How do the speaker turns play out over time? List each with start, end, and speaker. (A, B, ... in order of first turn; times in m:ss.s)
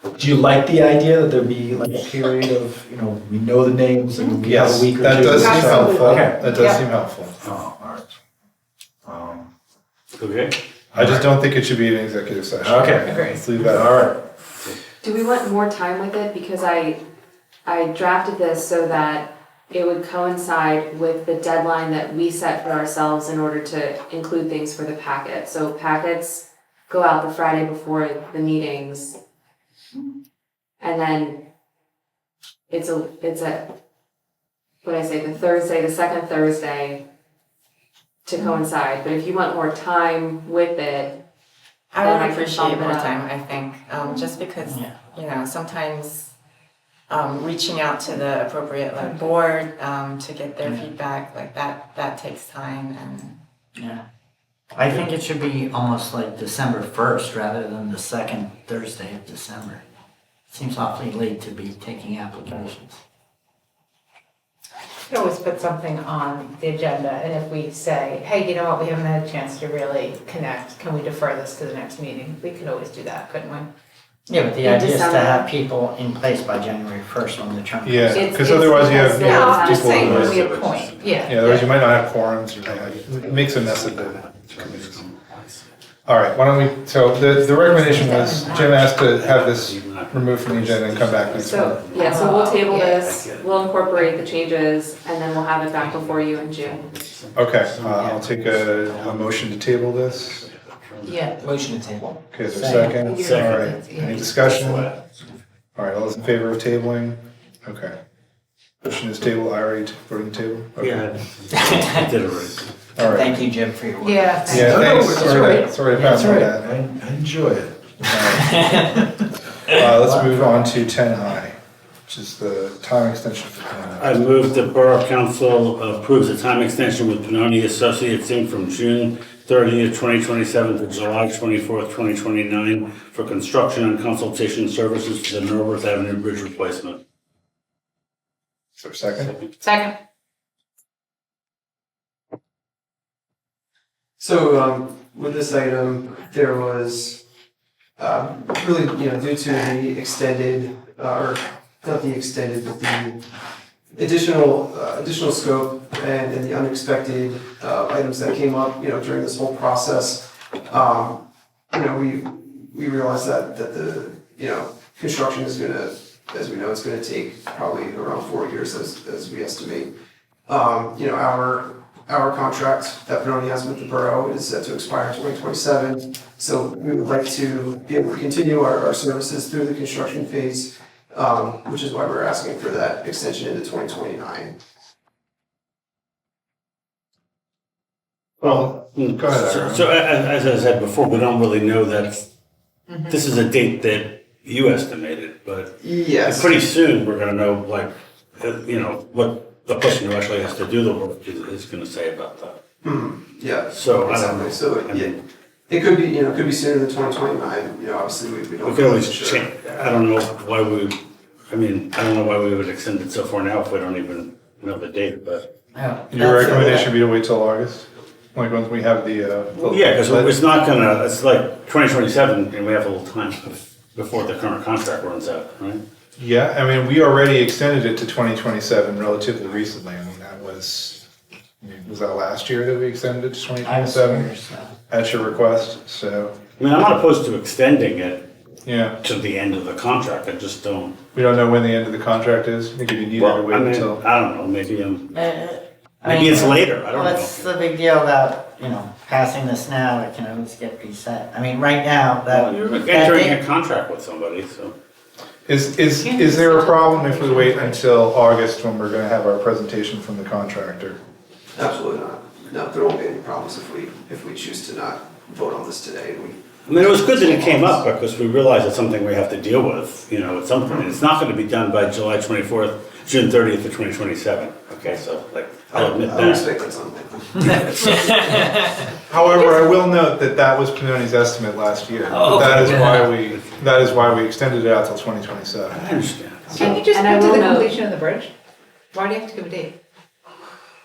0:00.2-0:01.2 A
0:00.2-0:06.3 B
0:01.8-0:02.4 A
0:04.1-0:06.3 A
0:04.4-0:07.4 C
0:05.4-0:06.8 D
0:10.1-0:10.6 E
0:10.9-0:13.9 C
0:12.7-0:12.9 B
0:13.0-0:13.4 D
0:15.0-0:17.0 F
0:17.7-0:29.2 F
0:30.8-0:31.4 F
0:32.7-0:33.7 F
0:34.8-0:37.0 F
0:38.2-0:41.2 F
0:41.9-0:46.3 G
0:42.0-0:43.2 F
0:44.6-0:45.0 A
0:47.1-0:53.4 G
0:50.6-0:50.9 A
0:53.8-0:54.0 A
0:54.7-0:59.8 A
1:00.5-1:03.0 A
1:05.1-1:13.7 D
1:14.3-1:18.4 A
1:14.6-1:15.5 F
1:17.8-1:20.4 C
1:18.1-1:19.9 F
1:18.9-1:21.6 D
1:19.4-1:25.7 E
1:21.2-1:25.0 C
1:26.0-1:31.8 C
1:27.3-1:28.6 D
1:28.0-1:34.0 E
1:31.4-1:36.9 F
1:32.0-1:32.9 D
1:35.7-1:41.6 E
1:37.3-1:40.4 C
1:41.0-1:41.3 D
1:41.4-1:42.9 A
1:42.3-1:44.9 C
1:43.0-1:45.2 E
1:43.6-1:44.1 D
1:45.8-1:47.9 C
1:48.8-1:51.0 C
1:50.8-1:52.9 E
1:53.0-1:53.4 C
1:53.2-1:55.5 A
1:54.0-1:55.7 D
1:54.5-1:56.7 C
1:54.8-1:55.3 B
1:55.9-1:57.7 B
1:57.7-1:58.4 A
1:58.1-1:58.6 C
1:58.6-1:59.0 B
1:59.7-2:04.2 C
2:04.0-2:17.0 E
2:18.8-2:19.3 C
2:19.2-2:19.5 E
2:19.6-2:19.9 D
2:24.2-2:27.2 H
2:28.0-2:33.1 H
2:33.9-2:41.2 H
2:41.7-2:49.9 H
2:50.5-3:04.5 H
3:08.4-3:09.9 C
3:08.4-3:12.2 E
3:12.9-3:13.2 D
3:13.0-3:22.6 E
3:15.8-3:16.5 H
3:22.8-3:25.2 H
3:23.7-3:25.2 E
3:25.7-3:29.4 H
3:28.6-3:31.0 E
3:31.5-3:35.5 E
3:35.9-3:36.8 D
3:36.1-3:40.3 C
3:36.4-3:36.6 H
3:39.5-3:45.8 E
3:46.2-3:51.0 C
3:51.6-3:54.3 C
3:53.6-3:54.7 A
3:54.9-3:56.3 C
3:56.6-3:58.3 E
3:58.6-3:59.0 C
3:59.0-4:01.0 E
4:01.1-4:04.0 C
4:03.2-4:05.1 E
4:05.1-4:13.4 A
4:06.0-4:07.5 E
4:12.3-4:14.8 E
4:15.5-4:21.0 C
4:16.0-4:17.8 D
4:21.5-4:26.4 H
4:26.6-4:36.5 E
4:27.2-4:27.6 H
4:35.7-4:38.1 H
4:39.1-4:45.9 C
4:42.1-4:43.5 E
4:45.7-4:46.8 E
4:46.5-4:48.3 D
4:46.6-4:47.8 F
4:48.9-4:49.7 D